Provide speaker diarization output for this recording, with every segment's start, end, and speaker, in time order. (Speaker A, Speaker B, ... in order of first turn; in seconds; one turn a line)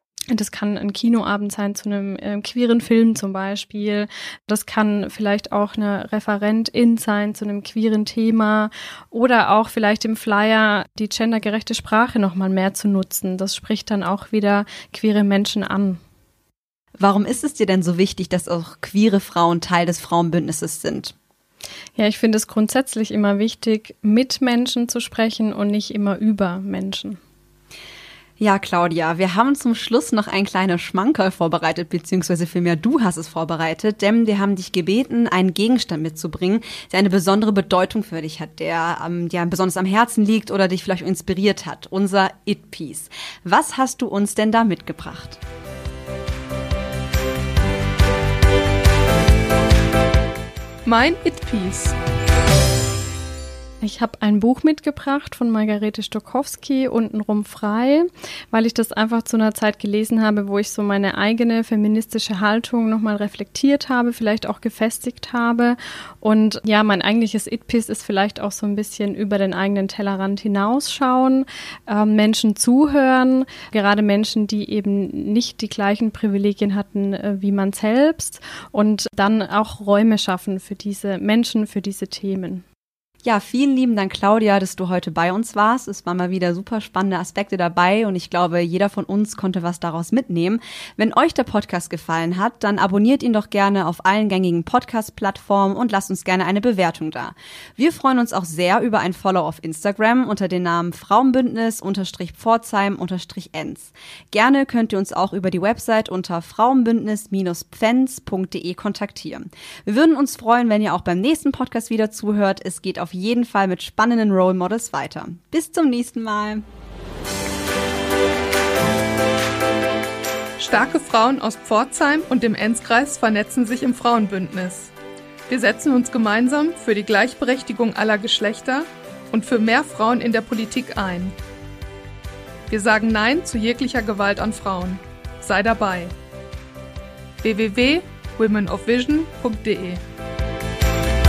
Speaker A: 0.3-16.0
Speaker B: 17.0-21.1
Speaker A: 22.0-27.2
Speaker B: 28.4-45.4
Speaker C: 50.8-51.9
Speaker A: 53.8-82.6
Speaker B: 83.2-116.7
Speaker C: 120.6-124.9
Speaker C: 125.5-131.3
Speaker C: 132.7-136.1
Speaker C: 137.4-140.0